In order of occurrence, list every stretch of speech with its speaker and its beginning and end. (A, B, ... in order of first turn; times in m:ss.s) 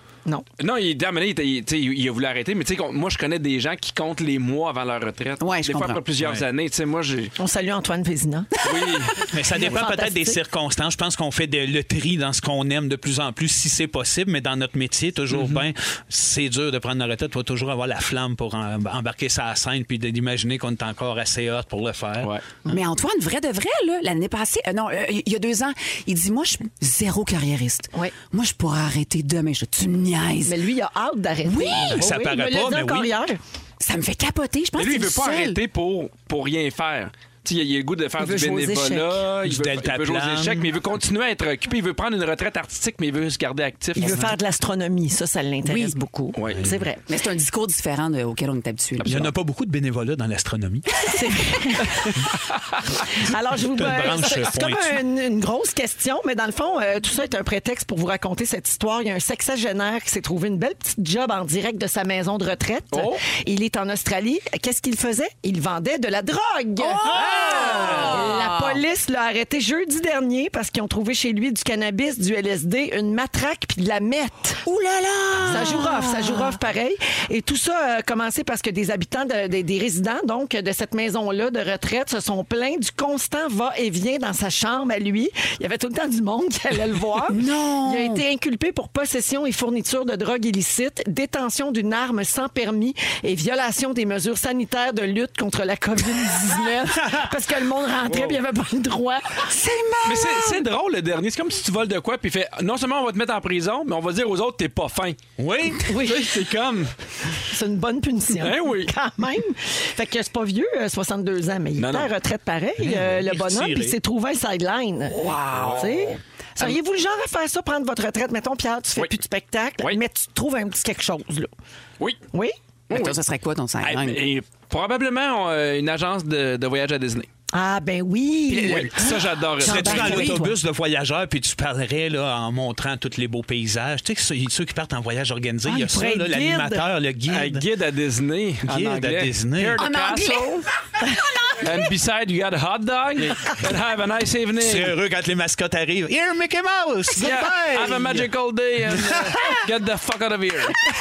0:00.6-0:07.3 A
0:05.4-0:06.0 B
0:07.4-0:08.5 C
0:08.6-0:09.2 A
0:09.3-0:22.3 D
0:09.5-0:10.4 C
0:15.3-0:15.6 A
0:22.2-0:22.4 A
0:22.7-0:30.6 B
0:30.4-0:33.4 C
0:31.4-0:32.0 B
0:31.9-0:33.1 D
0:33.8-0:35.6 B
0:34.8-0:44.2 A
0:38.2-0:39.2 C
0:39.4-0:40.7 D
0:44.0-0:47.0 C
0:44.0-0:44.3 D
0:45.6-0:45.9 B
0:46.3-0:46.7 A
0:46.5-0:46.8 D
0:47.1-0:49.3 B
0:49.0-0:49.3 A
0:49.0-0:51.1 D
0:51.1-0:52.1 C
0:53.2-1:14.6 C
0:53.6-0:55.0 D
1:02.9-1:03.2 A
1:06.8-1:08.8 B
1:07.1-1:08.0 D
1:14.6-1:16.6 B
1:15.4-1:39.4 C
1:27.3-1:28.2 B
1:38.0-1:38.4 A
1:39.5-1:40.6 B
1:40.0-1:45.2 A
1:45.4-1:45.9 D
1:45.9-1:46.3 C
1:45.9-1:46.9 A
1:47.5-2:01.5 C
1:48.4-1:48.9 A
1:51.8-1:52.1 A
1:52.8-1:53.9 D
1:55.1-1:56.7 A
2:02.9-2:03.2 A
2:02.9-2:04.2 B
2:03.8-2:07.3 A
2:07.5-2:10.6 C
2:08.5-2:10.3 A
2:09.6-2:17.6 D
2:15.6-2:16.8 C
2:17.3-2:20.6 A
2:18.6-2:19.8 D
2:19.8-2:20.6 B
2:21.3-2:21.6 B
2:21.6-2:25.0 A
2:24.6-2:28.2 D
2:27.2-2:30.8 A
2:27.2-2:27.9 C